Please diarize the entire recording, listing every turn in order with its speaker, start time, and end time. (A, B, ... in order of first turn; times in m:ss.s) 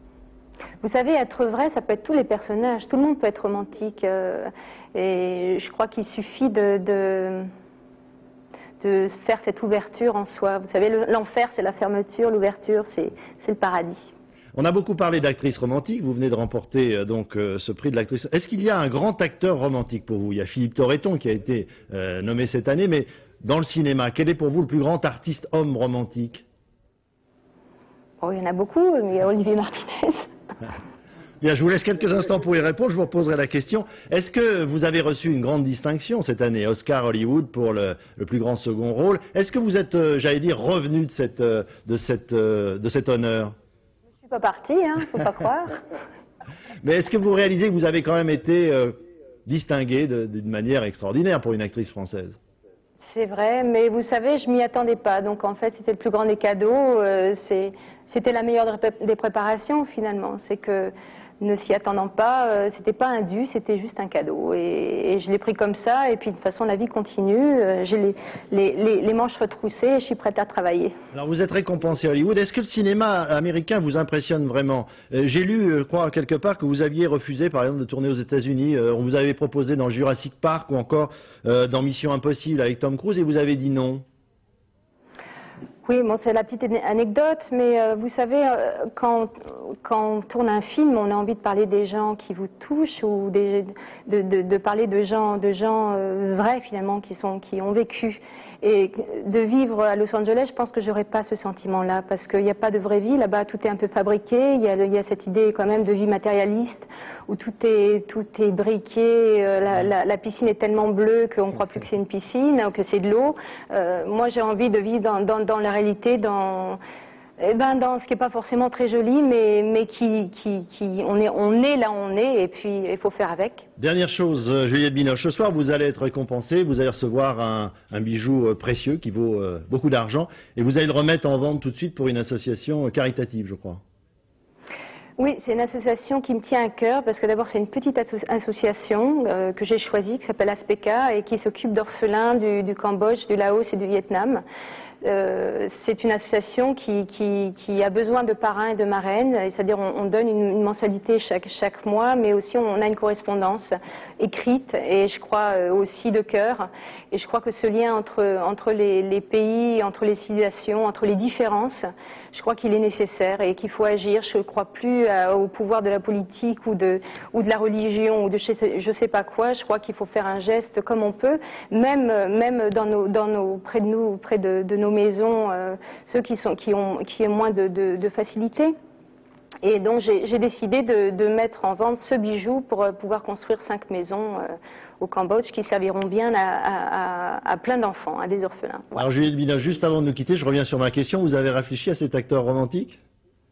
0:00.8-0:07.5 A
0:08.8-0:14.0 A
0:14.6-0:26.4 B
0:28.2-0:30.2 A
0:31.4-0:43.6 B
0:44.2-0:45.8 A
0:46.8-0:52.4 B
0:53.0-1:10.9 A
1:11.1-1:24.0 B
1:25.8-1:56.8 A
1:57.4-2:03.7 A
2:03.8-2:13.8 B
2:15.2-2:24.4 A
2:25.0-2:58.7 A
2:59.6-3:09.0 A
3:09.0-3:13.0 B